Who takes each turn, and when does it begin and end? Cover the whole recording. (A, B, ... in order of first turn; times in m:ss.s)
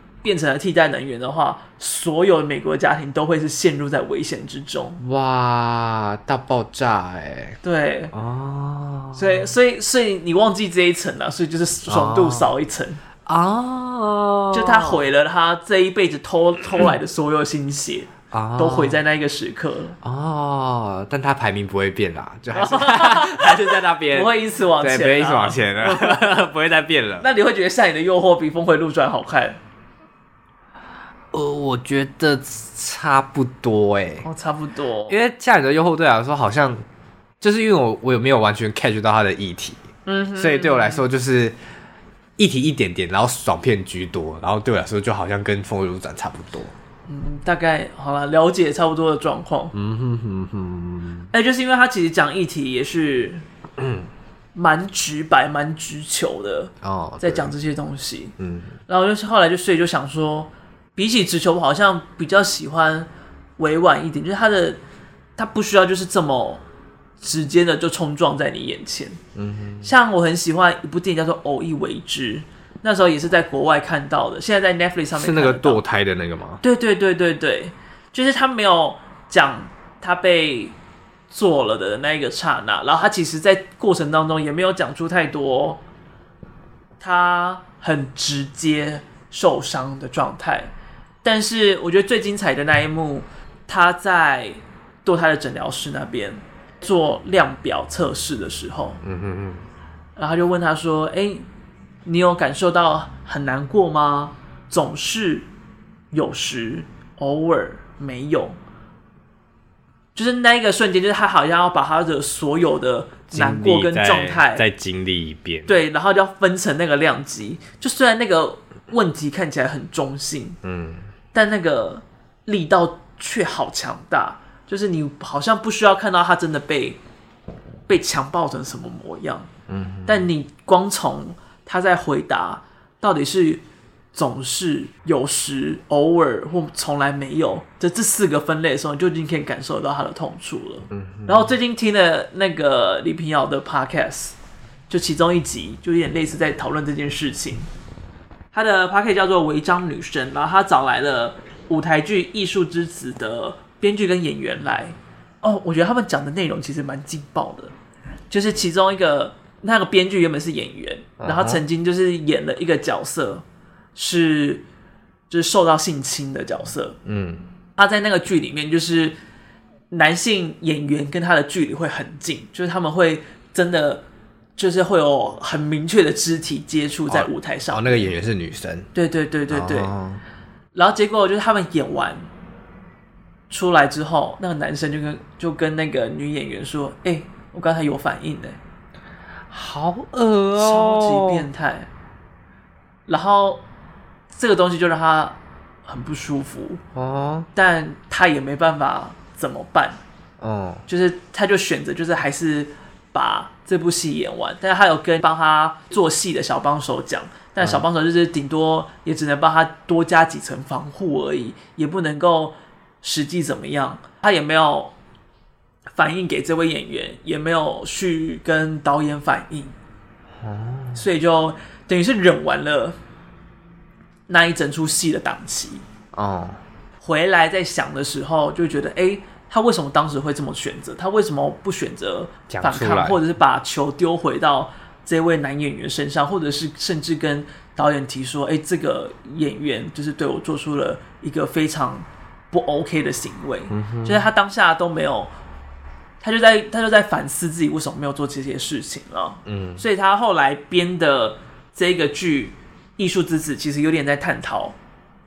0:00.2-0:05.0 A
0:05.0-0:07.6 B
0:07.6-0:08.1 A
0:08.1-0:09.5 B
0:09.2-0:13.0 A
0:11.9-0:12.5 B
0:13.2-0:15.0 B
0:14.5-0:20.0 A
0:18.3-0:19.0 B
0:20.0-0:27.3 B
0:22.5-0:26.3 A
0:27.2-0:29.6 A
0:31.3-0:34.3 B
0:34.2-0:35.2 A
0:35.1-0:36.8 B
0:37.4-0:39.8 B
0:40.1-0:41.0 A
0:40.4-0:41.6 B
0:42.4-0:46.7 B
0:47.1-0:49.7 A
0:49.7-0:51.3 B
0:51.3-0:53.4 A
0:53.8-0:54.1 B
0:54.6-0:58.3 A
0:56.8-0:57.5 B
0:58.4-0:58.7 B
0:58.9-1:04.8 A
1:05.4-1:06.6 A
1:07.2-1:09.2 A
1:09.4-1:09.9 B
1:09.8-1:15.8 A
1:15.1-1:16.6 B
1:16.6-1:20.8 A
1:21.3-1:25.8 A
1:27.0-1:30.7 A
1:31.2-1:39.0 A
1:39.0-1:39.6 B
1:40.2-1:41.4 A
1:42.0-1:45.5 A
1:46.1-1:48.6 A
1:50.2-1:54.6 A
1:53.3-1:55.7 B
1:55.7-2:00.6 A
2:00.6-2:01.0 B
2:01.3-2:07.0 A
2:07.9-2:09.5 A
2:09.7-2:10.3 B
2:10.1-2:13.6 A
2:14.1-2:24.4 A
2:20.9-2:21.5 B
2:24.9-2:27.7 A
2:28.5-2:37.7 A
2:38.3-2:43.4 A
2:41.2-2:41.6 B
2:44.0-2:44.6 A
2:45.3-2:47.0 A
2:47.0-2:47.5 B
2:47.8-2:49.2 A
2:49.9-2:54.0 A
2:54.6-2:58.1 A
2:57.1-2:58.9 B
2:58.9-2:59.9 A
2:59.5-3:00.2 B
3:00.7-3:02.3 A
3:03.5-3:08.6 A
3:09.5-3:11.5 B
3:10.6-3:11.9 A
3:13.1-3:13.6 A
3:14.3-3:16.8 A
3:17.0-3:17.5 B
3:17.6-3:20.0 A
3:20.4-3:20.8 B
3:20.9-3:34.9 A
3:27.6-3:27.8 B
3:35.9-3:39.7 A
3:40.4-3:41.0 B
3:41.0-3:43.0 A
3:44.3-3:45.8 A
3:46.1-3:46.6 B
3:47.0-4:05.3 A
3:52.5-3:53.2 B
4:03.7-4:04.2 B
4:06.2-4:14.8 A
4:09.5-4:09.8 B